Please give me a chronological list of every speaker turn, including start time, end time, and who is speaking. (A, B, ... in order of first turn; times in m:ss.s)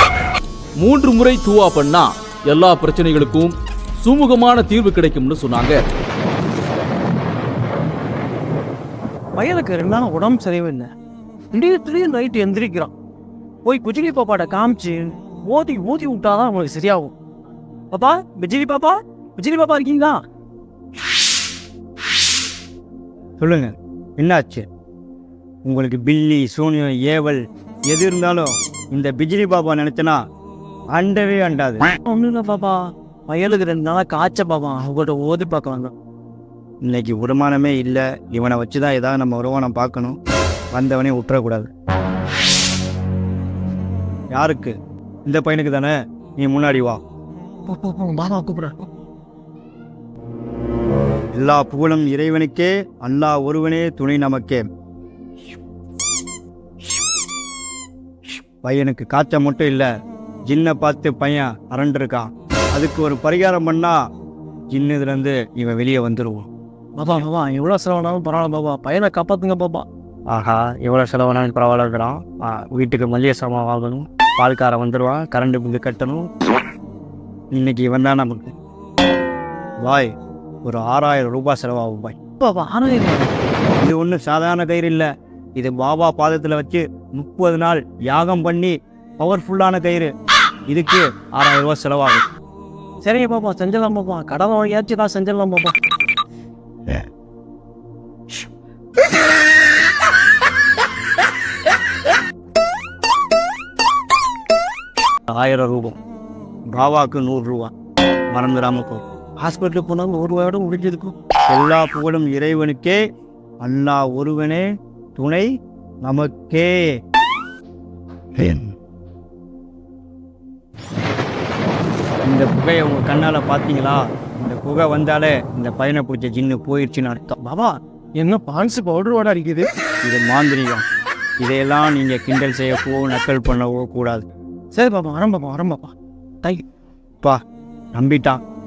0:00.8-0:05.8 A
0:09.3-0:10.9 B
0:11.5-0:12.9 B
0:13.6-0:17.1 B
0:17.9-0:20.2 B
0:23.4-0:24.6 C
0:25.6-0:30.2 C
0:30.9-0:31.9 C
0:32.1-0:35.9 B
0:36.8-0:40.2 C
0:40.7-0:41.7 C
0:44.3-0:44.7 C
0:45.2-0:47.0 C
0:47.6-0:48.8 B
0:51.3-0:54.6 C
0:58.6-0:59.9 C
1:00.5-1:04.0 C
1:04.7-1:06.5 C
1:07.0-1:09.8 B
1:10.3-1:16.3 C
1:17.5-1:18.5 C
1:19.8-1:20.1 C
1:20.6-1:22.2 C
1:22.4-1:23.3 B
1:23.8-1:30.1 C
1:30.7-1:32.2 C
1:33.0-1:35.7 B
1:45.3-1:46.0 C
1:46.7-1:47.7 C
1:48.3-1:53.0 C
1:50.2-1:50.8 B
1:53.6-1:54.6 C
1:55.2-1:55.5 C
1:56.0-1:56.8 C
1:58.4-1:58.7 C
2:02.2-2:07.2 C
2:07.3-2:09.7 B
2:10.0-2:10.8 C
2:11.4-2:14.2 C
2:14.7-2:16.6 B
2:17.9-2:18.4 C